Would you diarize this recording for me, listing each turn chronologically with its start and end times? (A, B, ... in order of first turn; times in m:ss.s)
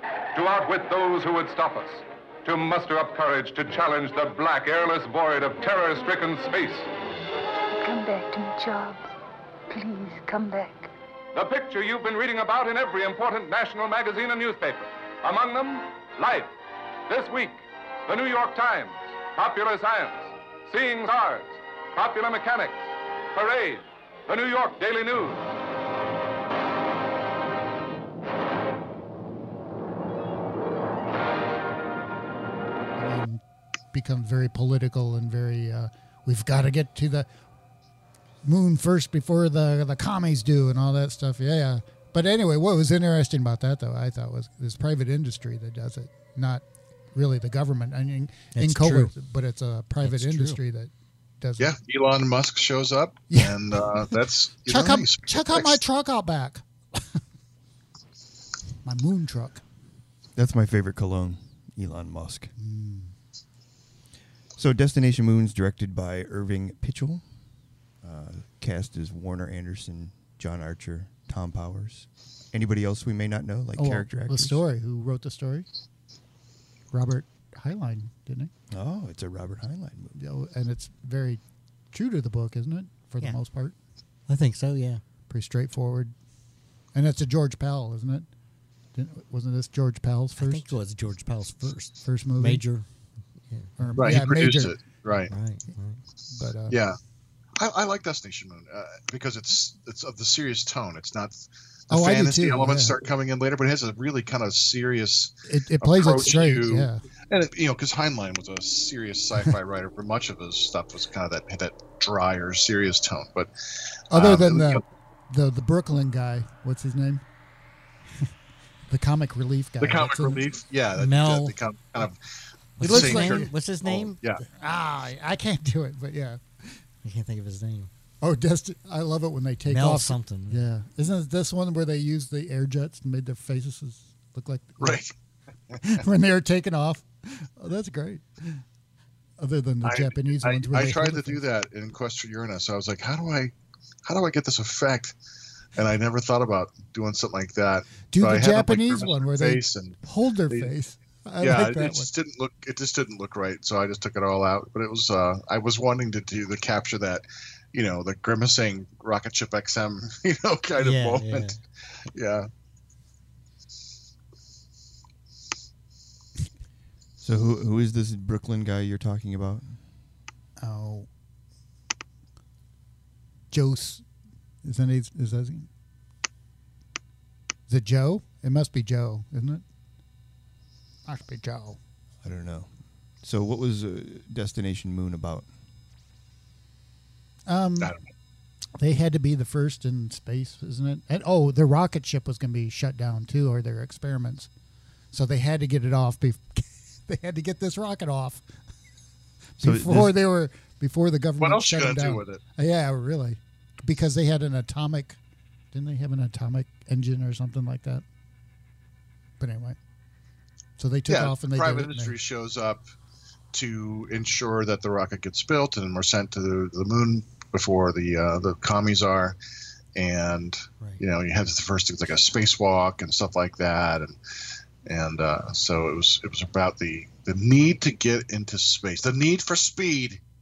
0:00.3-0:06.9 A
0:07.7-0:09.1 B
0:09.7-0:10.9 B
0:11.3-0:16.5 A
0:17.1-0:25.4 A
0:33.0-0:37.3 C
0:38.4-0:51.7 C
0:48.5-0:49.1 D
0:50.0-0:50.6 D
0:51.6-0:55.8 E
0:53.3-0:53.6 C
0:54.7-0:57.0 C
0:58.8-0:59.6 C
1:00.3-1:02.5 F
1:02.6-1:03.1 C
1:04.6-1:07.2 F
1:08.0-1:14.6 F
1:13.8-1:15.7 C
1:16.9-1:18.5 C
1:18.7-1:20.2 F
1:20.2-1:21.4 C
1:21.9-1:23.8 C
1:24.3-1:25.0 D
1:25.3-1:26.1 C
1:26.9-1:28.3 C
1:29.0-1:30.7 C
1:30.4-1:32.8 D
1:32.0-1:32.6 C
1:33.5-1:34.0 D
1:33.8-1:34.8 C
1:34.0-1:35.3 E
1:35.3-1:36.0 D
1:36.3-1:36.8 C
1:36.7-1:37.0 E
1:37.6-1:53.5 E
1:41.9-1:43.0 C
1:45.5-1:47.0 C
1:54.1-1:54.8 E
1:54.1-1:57.2 C
1:58.9-2:00.4 C
1:59.8-2:02.2 E
2:01.0-2:01.5 D
2:02.8-2:04.2 D
2:02.8-2:04.4 E
2:02.8-2:03.5 C
2:04.6-2:06.8 C
2:07.0-2:07.9 D
2:08.2-2:15.0 C
2:09.7-2:10.6 D
2:14.8-2:15.1 E
2:15.8-2:18.6 C
2:19.4-2:21.4 C
2:19.8-2:23.5 E
2:24.1-2:25.2 E
2:25.8-2:30.7 E
2:28.1-2:32.1 C
2:31.4-2:41.5 E
2:40.8-2:41.6 D
2:42.1-2:42.5 E
2:47.2-2:49.8 F
2:50.6-2:51.1 C
2:53.5-2:54.0 C
2:54.6-2:55.7 C
2:57.7-2:59.6 C
3:01.1-3:01.8 C
3:02.2-3:02.7 F
3:03.2-3:05.5 F
3:07.5-3:07.9 C
3:08.8-3:14.5 C
3:15.1-3:18.4 C
3:19.6-3:25.2 C
3:19.6-3:20.2 F
3:21.4-3:22.4 E
3:25.7-3:28.0 C
3:29.4-3:29.8 C
3:30.8-3:32.2 C
3:31.1-3:32.8 E
3:33.5-3:39.4 E
3:40.0-3:44.2 E
3:44.8-3:50.2 E